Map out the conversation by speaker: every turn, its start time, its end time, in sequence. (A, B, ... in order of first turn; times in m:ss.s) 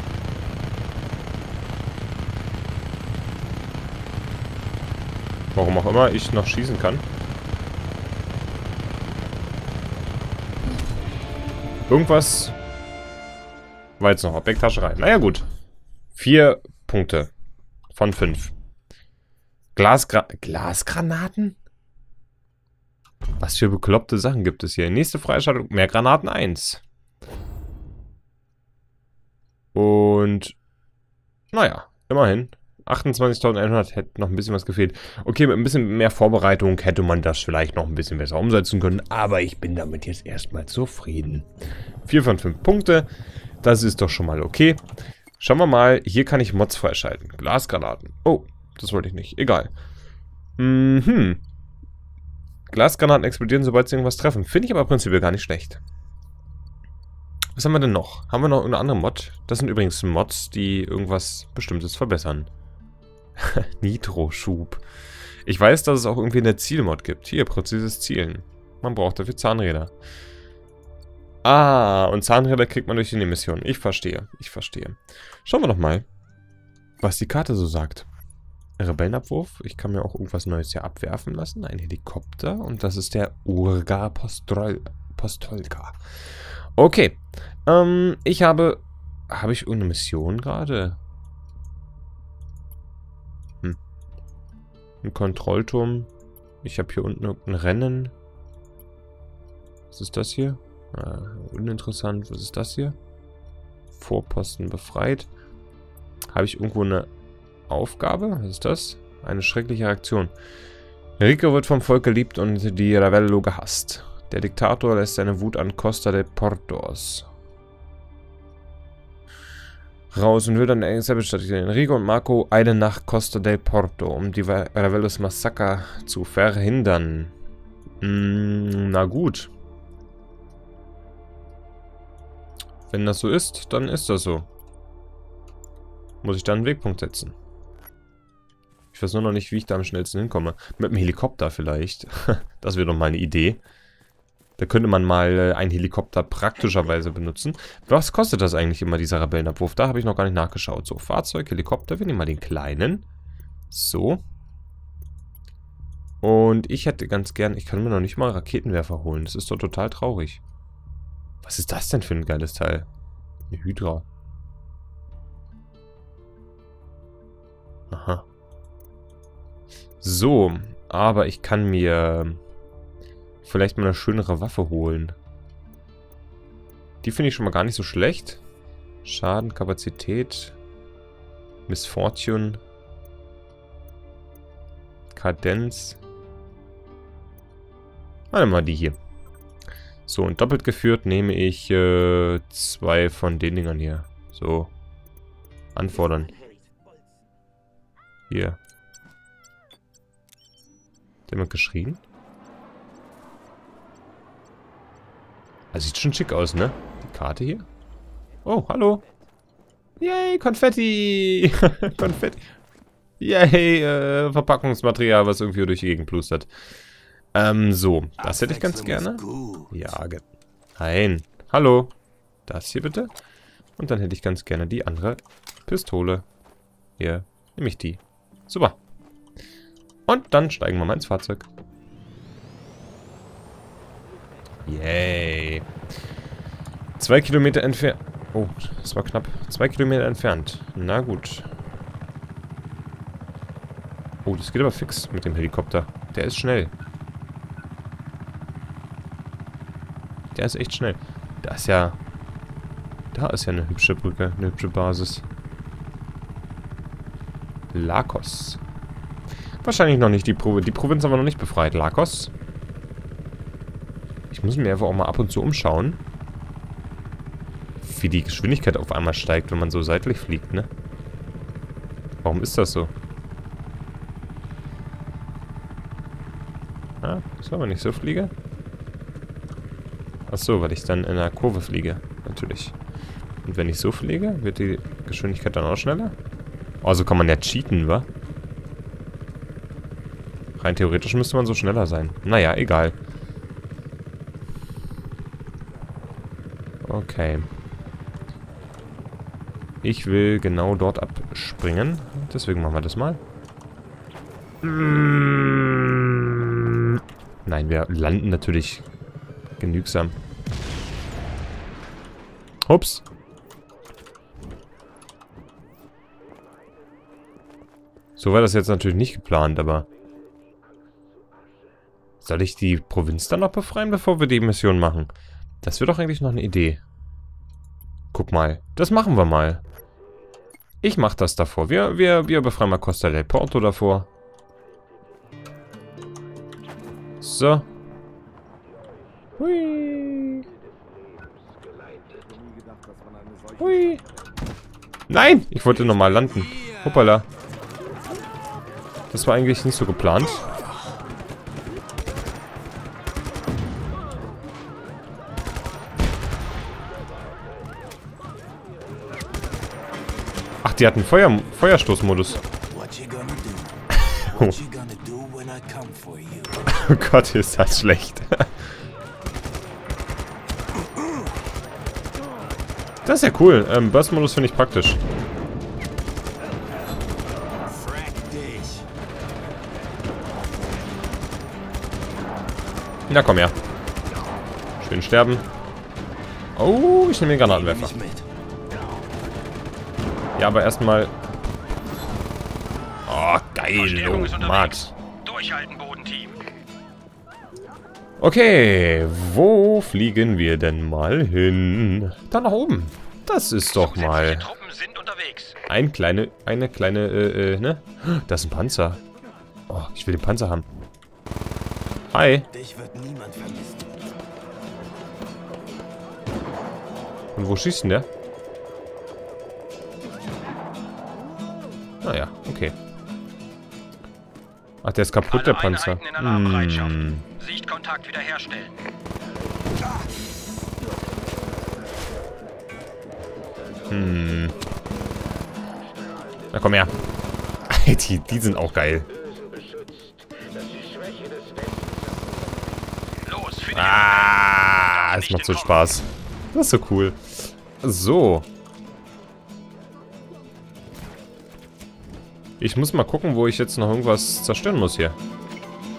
0:05.5-0:07.1 A
0:11.9-0:12.6 A
0:14.0-0:15.5 A
0:16.2-0:17.3 A
0:17.9-0:18.5 A
0:19.8-0:21.6 A
0:23.4-0:26.8 A
0:29.7-0:30.6 A
0:31.5-0:41.5 A
0:42.1-0:43.1 A
0:43.6-0:44.8 A
0:45.4-0:49.7 A
0:50.6-0:51.4 A
0:52.7-0:55.8 A
0:57.6-1:02.5 A
1:03.4-1:04.8 A
1:05.5-1:09.9 A
1:11.4-1:16.1 A
1:17.0-1:18.1 A
1:18.8-1:26.0 A
1:26.8-1:31.0 A
1:35.0-1:36.1 A
1:36.6-1:38.1 A
1:39.9-1:43.0 A
1:44.0-1:45.3 A
1:46.3-1:47.1 A
1:47.7-1:50.3 A
1:51.2-1:57.3 A
2:00.1-2:07.3 A
2:08.0-2:09.5 A
2:12.9-2:14.5 A
2:16.2-2:17.4 A
2:18.9-2:23.6 A
2:24.6-2:33.0 A
2:33.7-2:34.2 A
2:36.2-2:40.4 A
2:41.4-2:42.9 A
2:43.5-2:44.1 A
2:47.9-2:48.2 A
2:50.0-2:52.4 A
2:53.4-2:55.2 A
2:57.0-2:58.4 A
2:59.0-3:00.6 A
3:01.7-3:02.6 A
3:05.1-3:06.0 A
3:08.3-3:09.0 A
3:10.1-3:14.7 A
3:15.8-3:16.4 A
3:18.3-3:18.6 A
3:21.3-3:22.0 A
3:25.7-3:27.7 A
3:28.4-3:29.0 A
3:30.0-3:32.6 A
3:33.2-3:36.5 A
3:37.3-3:40.2 A
3:38.2-3:39.7 B
3:40.8-3:41.9 A
3:42.5-3:43.1 A
3:43.8-3:46.2 A
3:47.0-3:48.8 A
3:50.1-3:51.5 A
3:54.6-3:55.7 A
3:57.0-4:01.5 A
4:04.2-4:06.7 A
4:10.3-4:12.0 A
4:13.1-4:15.2 A
4:17.7-4:18.6 A
4:19.6-4:22.3 A
4:24.3-4:26.0 A
4:27.8-4:30.7 A
4:32.2-4:32.9 A
4:37.0-4:38.3 A
4:40.3-4:42.8 A
4:43.4-4:46.2 A
4:46.8-4:48.1 A
4:50.6-4:53.0 A
4:56.8-4:57.5 A
4:59.8-5:03.2 A
5:04.6-5:08.9 A
5:09.6-5:10.1 A
5:12.6-5:13.0 A
5:18.2-5:19.9 A
5:22.2-5:26.8 A
5:28.1-5:29.6 A
5:30.8-5:34.1 A
5:37.2-5:37.7 A
5:39.4-5:40.5 A
5:43.6-5:44.0 A
5:45.1-5:47.3 A
5:49.1-5:50.5 A
6:00.6-6:02.4 A
6:02.5-6:06.6 B
6:06.6-6:08.5 A
6:13.0-6:15.0 A
6:17.6-6:18.9 B
6:23.1-6:23.5 A
6:24.8-6:25.4 A
6:26.6-6:28.0 A
6:27.5-6:28.2 B
6:30.4-6:31.1 A
6:33.1-6:34.9 A
6:33.7-6:36.4 C
6:38.2-6:44.5 A
6:43.8-6:45.6 C
6:45.7-6:49.0 A
6:49.7-6:50.7 A
6:52.1-6:52.5 A
6:52.5-6:54.0 B
6:57.4-6:58.1 A
7:02.0-7:02.8 A
7:04.8-7:07.3 A
7:05.3-7:08.8 C
7:13.9-7:14.6 A
7:16.5-7:17.0 A
7:17.7-7:19.1 A
7:23.2-7:25.9 C
7:23.7-7:28.5 A
7:32.6-7:35.2 A